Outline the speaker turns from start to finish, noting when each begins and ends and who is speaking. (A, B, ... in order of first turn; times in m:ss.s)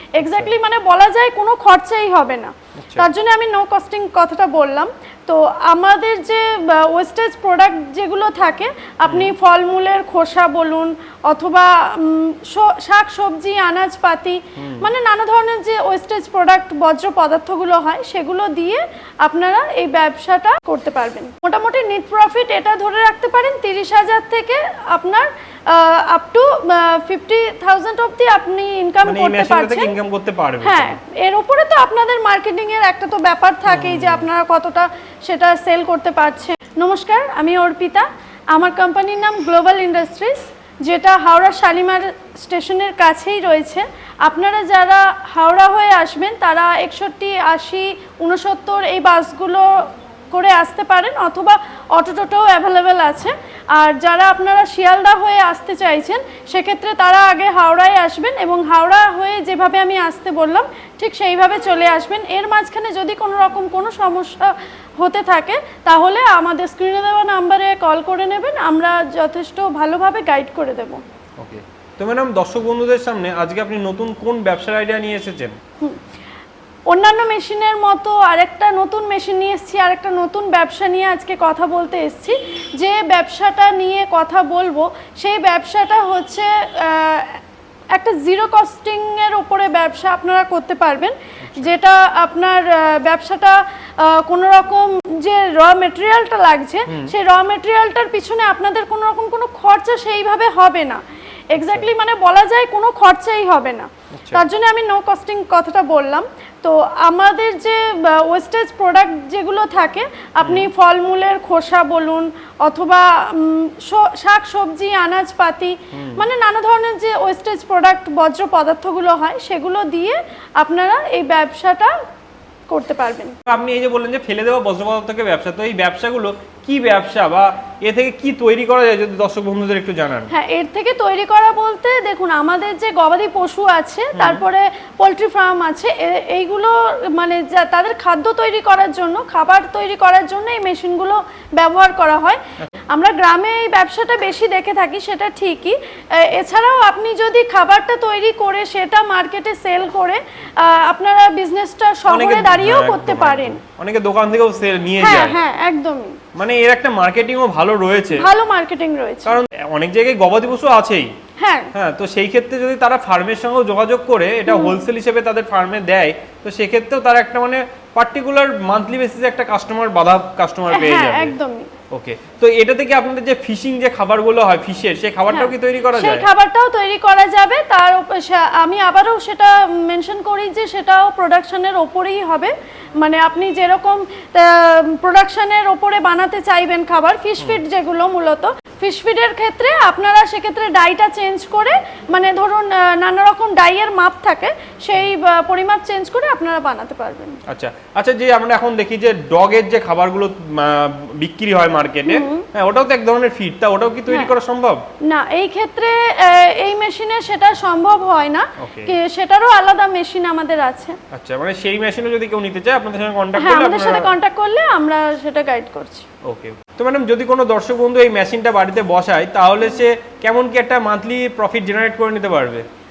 0:00.2-0:29.9 A
0:00.2-0:00.5 B
0:02.8-0:03.1 B
0:09.1-0:09.3 B
0:14.6-0:14.9 B
0:29.1-0:31.0 B
0:30.6-0:49.7 A
0:33.7-0:34.3 B
0:50.3-1:11.0 A
1:11.4-1:15.6 B
1:16.9-1:27.4 A
1:27.9-2:01.9 A
1:31.4-1:31.7 B
1:36.9-1:37.1 B
1:41.6-1:41.9 B
1:44.2-1:44.5 B
1:50.4-1:50.7 B
1:55.9-1:56.3 B
2:02.7-2:03.4 A
2:03.5-2:10.3 B
2:10.3-2:22.4 A
2:14.2-2:14.4 B
2:22.9-2:33.6 A
2:32.1-2:35.4 B
2:35.0-2:36.2 A
2:36.4-2:38.3 B
2:38.1-2:39.4 A
2:39.3-2:41.1 B
2:41.4-2:41.7 A
2:41.7-2:51.4 B
2:44.5-2:44.9 A
2:50.7-2:51.7 A
2:51.9-2:56.3 B
2:55.3-3:17.4 A
3:17.5-3:24.8 B
3:22.1-3:22.5 A
3:25.1-3:31.0 A
3:28.6-3:29.0 B
3:31.1-3:34.1 B
3:33.4-3:36.1 A
3:36.2-3:42.6 B